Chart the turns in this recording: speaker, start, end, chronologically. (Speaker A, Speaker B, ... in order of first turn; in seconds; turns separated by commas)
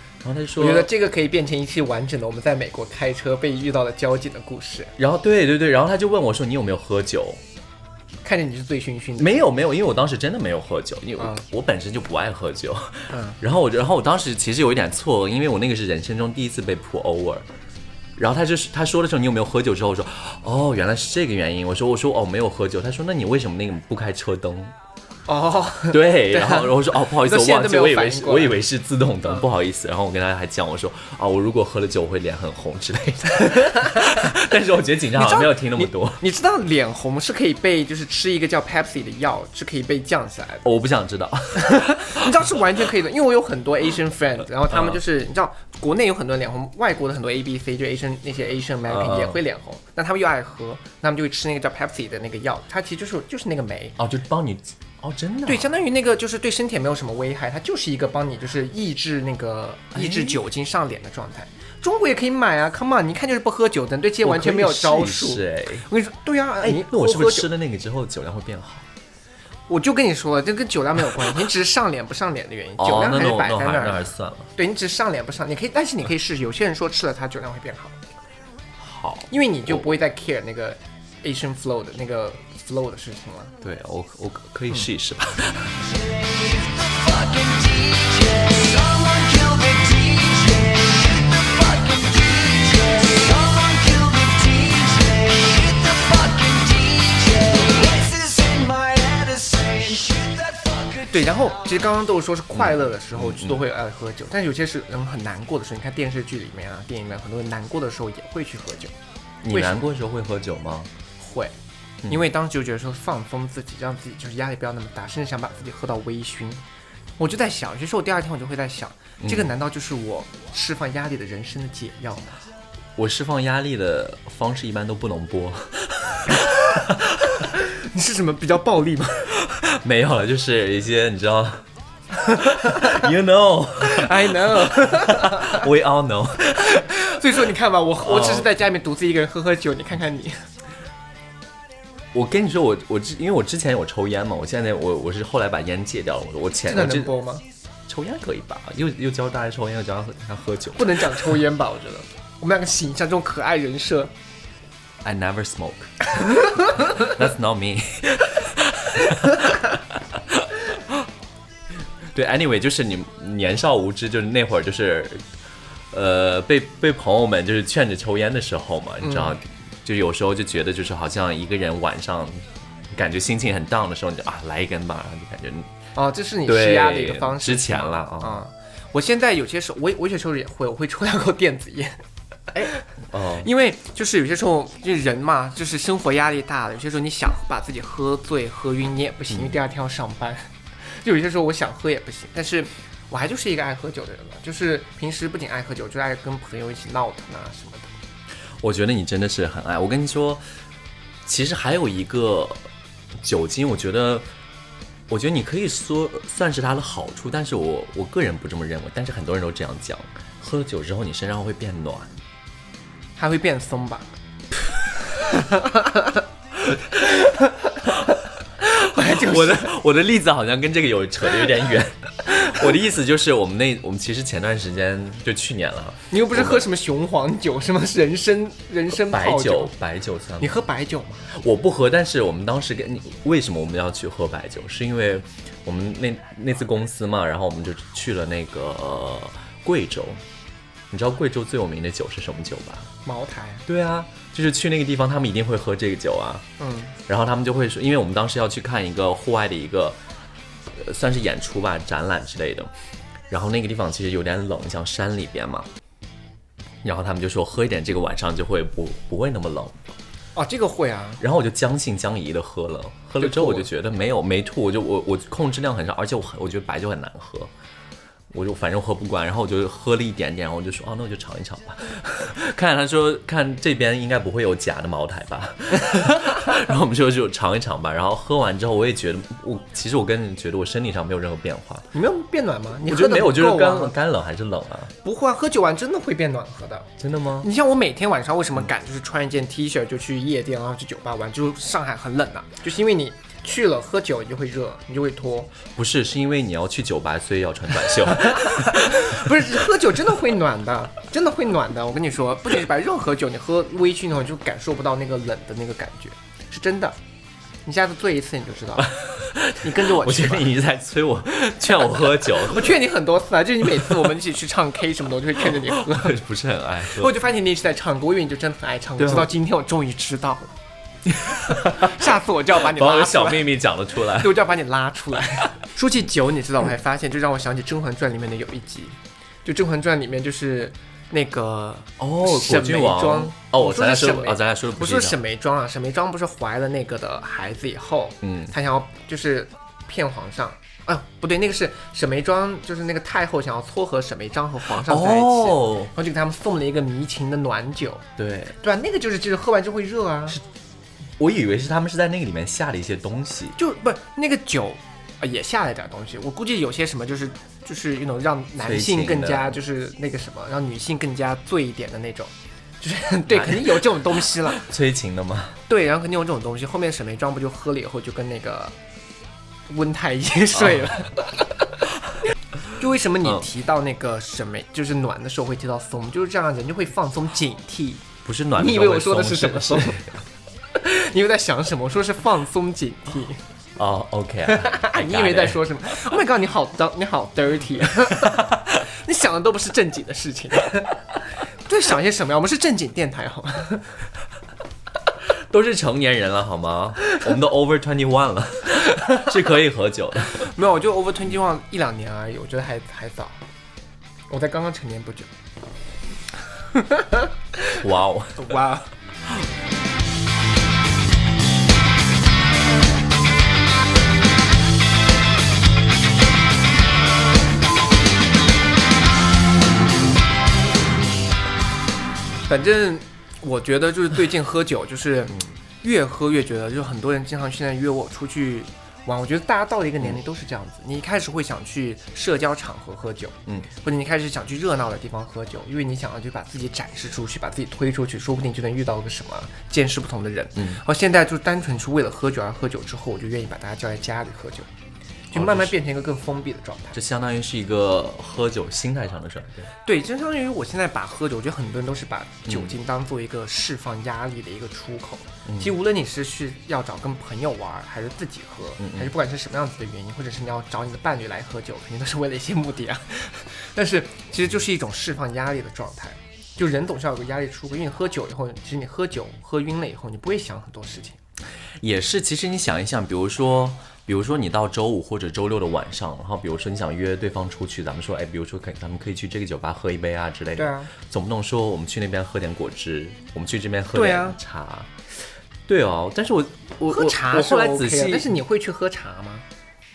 Speaker A: 0.2-0.9, Speaker B: 0.6-4.9, Speaker A: 5.0-7.4, Speaker B: 8.2-9.4, Speaker A: 9.2-17.4, Speaker B: 13.1-13.4, Speaker A: 18.2-24.7, Speaker B: 25.3-28.6, Speaker A: 25.9-36.2, Speaker B: 33.3-34.3, Speaker B: 35.1-40.6, Speaker A: 40.6-42.5, Speaker B: 41.5-54.0, Speaker A: 44.7-45.0, Speaker A: 48.9-49.4, Speaker A: 54.0-55.7, Speaker B: 55.5-67.5, Speaker A: 59.9-60.4, Speaker A: 64.2-65.9, Speaker A: 66.6-68.9, Speaker B: 69.7-78.0, Speaker A: 72.8-74.5, Speaker A: 78.8-79.8, Speaker B: 79.3-83.5, Speaker A: 83.6-85.8, Speaker C: 85.8-101.5, Speaker B: 101.1-108.9, Speaker A: 102.5-103.6, Speaker A: 109.4-110.9, Speaker B: 109.5-109.8, Speaker B: 111.2-111.5, Speaker B: 112.1-116.6, Speaker B: 117.2-122.3, Speaker A: 119.2-119.5, Speaker A: 123.0-127.0, Speaker B: 127.3-129.3, Speaker A: 129.4-131.6, Speaker A: 132.2-136.9, Speaker B: 132.2-133.1, Speaker B: 133.8-135.7, Speaker B: 136.6-140.4, Speaker A: 138.0-138.5, Speaker A: 142.1-147.1, Speaker B: 146.7-147.4, Speaker A: 147.9-151.4, Speaker B: 150.7-154.1, Speaker A: 155.0-161.1, Speaker A: 162.1-165.2, Speaker A: 165.9-175.7, Speaker B: 169.0-169.4, Speaker B: 175.9-182.0, Speaker A: 176.4-178.4, Speaker B: 182.5-182.8, Speaker A: 182.5-183.5, Speaker B: 183.4-197.9, Speaker A: 198.6-200.4, Speaker A: 201.2-202.6, Speaker A: 203.2-204.2, Speaker A: 205.1-212.1, Speaker B: 213.2-214.1, Speaker B: 215.2-216.2, Speaker B: 216.9-217.9, Speaker B: 218.6-219.7, Speaker A: 218.8-226.7, Speaker B: 226.1-229.7, Speaker A: 228.9-230.6, Speaker B: 230.4-231.3, Speaker A: 231.3-240.2, Speaker A: 240.9-242.9, Speaker B: 243.0-243.6, Speaker A: 243.7-246.4, Speaker B: 246.6-246.9, Speaker A: 247.1-250.0, Speaker A: 250.7-252.7, Speaker A: 253.3-255.7, Speaker A: 256.8-259.9, Speaker B: 260.4-261.2, Speaker A: 261.2-267.5, Speaker B: 263.2-263.7, Speaker A: 268.3-281.9, Speaker B: 276.0-276.5, Speaker B: 281.9-283.9, Speaker A: 282.8-284.9, Speaker B: 285.0-286.9, Speaker A: 287.0-287.5, Speaker B: 287.4-295.5, Speaker A: 295.7-299.4, Speaker B: 298.1-307.0, Speaker B: 307.6-308.9, Speaker A: 308.8-312.8, Speaker B: 309.6-310.5, Speaker B: 312.4-316.2, Speaker A: 315.5-317.1, Speaker B: 316.9-320.5, Speaker A: 319.0-319.3, Speaker A: 321.1-322.0, Speaker B: 321.5-323.5, Speaker A: 322.6-324.4, Speaker B: 324.1-348.0, Speaker A: 332.0-335.2, Speaker A: 338.2-338.5, Speaker A: 344.8-345.9, Speaker A: 348.2-348.6, Speaker B: 348.6-350.4, Speaker A: 351.2-353.6, Speaker B: 353.6-364.6, Speaker A: 358.6-359.6, Speaker A: 363.3-365.6, Speaker B: 365.7-368.7, Speaker B: 369.7-371.6, Speaker A: 370.6-370.9, Speaker B: 372.7-380.0, Speaker A: 378.2-380.2, Speaker B: 380.7-383.4, Speaker A: 383.8-385.6, Speaker B: 384.5-391.0, Speaker A: 388.0-388.6, Speaker B: 391.6-393.9, Speaker A: 395.3-400.5, Speaker B: 400.4-403.4, Speaker B: 404.3-405.3, Speaker B: 406.7-407.8, Speaker A: 407.8-408.6, Speaker B: 408.4-408.9, Speaker B: 422.5-444.7, Speaker A: 440.6-440.8, Speaker B: 445.3-447.0, Speaker A: 445.3-445.7, Speaker A: 446.9-449.7, Speaker B: 449.8-471.2, Speaker A: 452.5-452.7, Speaker A: 455.5-455.7, Speaker A: 458.8-459.1, Speaker A: 471.8-484.9, Speaker B: 480.6-480.9, Speaker B: 483.9-484.4, Speaker A: 485.7-488.3, Speaker B: 486.9-489.4